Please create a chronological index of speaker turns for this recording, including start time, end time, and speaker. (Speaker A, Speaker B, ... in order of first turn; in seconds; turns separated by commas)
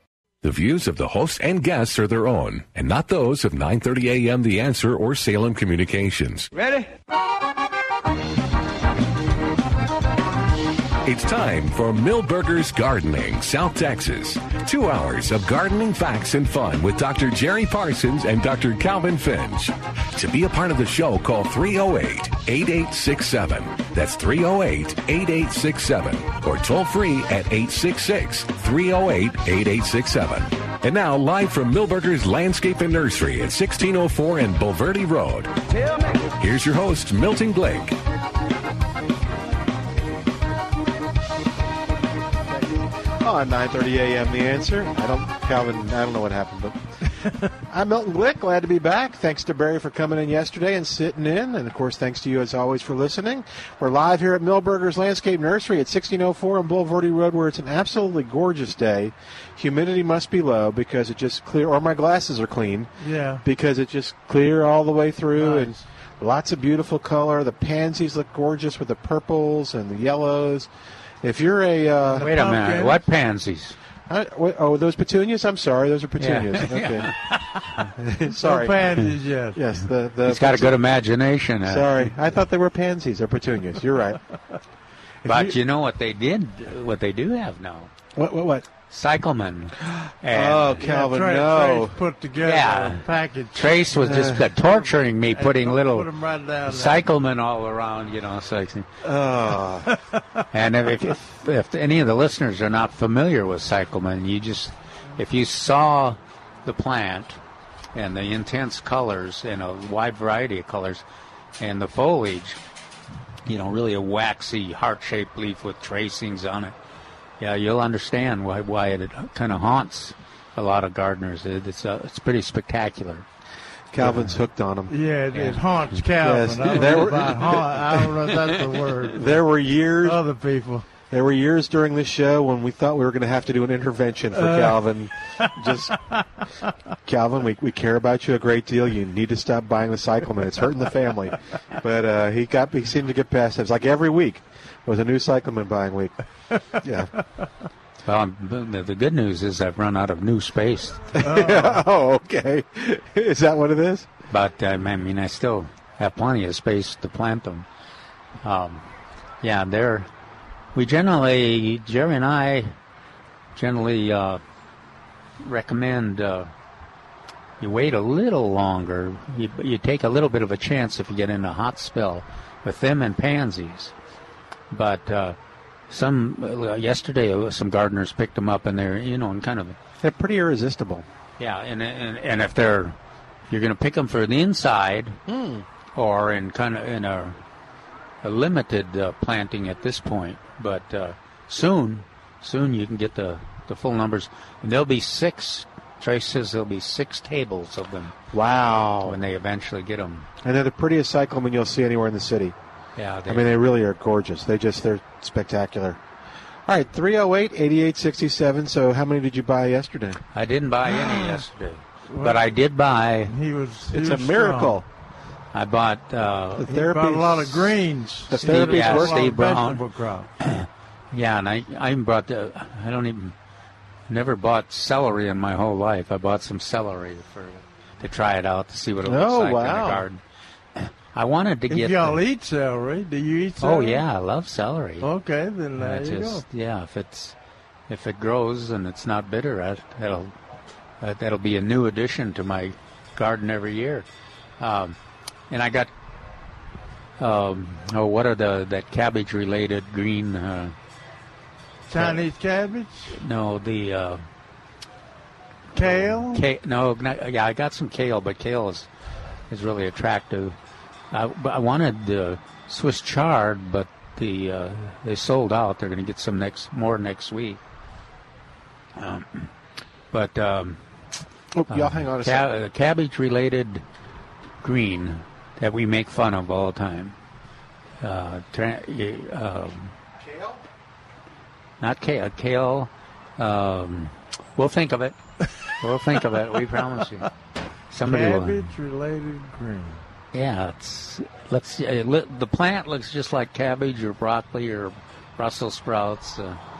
Speaker A: 0.4-6.5, Speaker A: 11.0-35.5, Speaker A: 36.4-38.0, Speaker B: 43.2-46.8, Speaker B: 47.7-62.9, Speaker C: 63.0-63.4, Speaker B: 63.4-70.7, Speaker C: 65.4-65.8, Speaker B: 71.2-72.3, Speaker C: 72.1-73.0, Speaker D: 72.2-73.8, Speaker B: 74.1-77.1, Speaker D: 76.2-77.1, Speaker B: 78.0-78.8, Speaker C: 78.4-79.6, Speaker B: 79.5-80.8, Speaker D: 80.2-82.1, Speaker B: 81.7-84.2, Speaker B: 85.2-85.6, Speaker D: 85.2-87.9, Speaker B: 88.1-88.7, Speaker D: 88.9-90.8, Speaker B: 90.3-92.0, Speaker C: 90.8-93.8, Speaker D: 92.4-96.1, Speaker B: 93.9-94.5, Speaker C: 94.6-97.1, Speaker D: 96.7-98.9, Speaker B: 99.0-99.9, Speaker C: 99.9-100.4, Speaker D: 100.5-107.4, Speaker D: 107.9-111.0, Speaker D: 111.6-112.6, Speaker D: 113.5-116.8, Speaker D: 117.4-123.2, Speaker B: 123.9-124.9, Speaker C: 124.9-129.3, Speaker D: 125.3-125.6, Speaker B: 126.2-127.8, Speaker B: 129.1-130.2, Speaker C: 130.0-130.8, Speaker B: 131.1-136.0, Speaker C: 134.3-134.8, Speaker B: 137.1-146.1, Speaker B: 146.8-147.1, Speaker D: 148.0-151.1, Speaker B: 151.2-154.1, Speaker C: 151.2-151.8, Speaker D: 154.3-157.7, Speaker D: 158.4-158.8, Speaker D: 159.4-160.1, Speaker D: 160.7-162.7, Speaker D: 163.5-164.4, Speaker D: 165.4-166.5, Speaker D: 167.6-173.9, Speaker D: 174.7-175.3, Speaker D: 175.9-179.8, Speaker B: 180.0-181.1, Speaker D: 181.4-182.9, Speaker D: 183.5-185.2, Speaker B: 185.3-185.6, Speaker D: 185.9-187.4, Speaker D: 188.2-198.2, Speaker B: 198.3-199.2, Speaker D: 199.0-200.3, Speaker B: 200.4-202.5, Speaker D: 203.0-203.5, Speaker B: 203.3-206.0, Speaker B: 206.7-210.2, Speaker D: 210.3-213.3, Speaker C: 211.1-211.3, Speaker C: 212.1-212.5, Speaker C: 213.3-214.8, Speaker B: 213.9-214.8, Speaker D: 215.5-216.7, Speaker B: 216.6-217.7, Speaker C: 216.6-220.3, Speaker B: 218.3-219.3, Speaker D: 218.3-219.8, Speaker D: 220.4-223.3, Speaker D: 224.1-230.2, Speaker B: 229.0-230.1, Speaker D: 230.8-232.2, Speaker C: 231.7-234.0, Speaker D: 233.6-235.1, Speaker C: 235.0-236.4, Speaker D: 235.8-237.3, Speaker D: 237.9-240.3, Speaker D: 241.0-244.1, Speaker D: 244.6-245.0, Speaker D: 245.5-245.9, Speaker D: 247.2-250.7, Speaker C: 251.9-253.2, Speaker D: 251.9-252.2, Speaker D: 253.1-254.2, Speaker C: 255.7-256.4, Speaker D: 255.8-258.9, Speaker D: 259.5-260.6, Speaker D: 261.1-267.6, Speaker D: 269.0-269.5, Speaker D: 270.1-270.8, Speaker B: 271.5-272.5, Speaker D: 271.7-273.8, Speaker D: 274.6-277.1, Speaker D: 278.0-279.9, Speaker B: 280.2-280.6, Speaker D: 281.8-285.2, Speaker D: 285.8-287.3, Speaker D: 287.9-288.7, Speaker C: 288.0-290.0, Speaker D: 290.3-296.6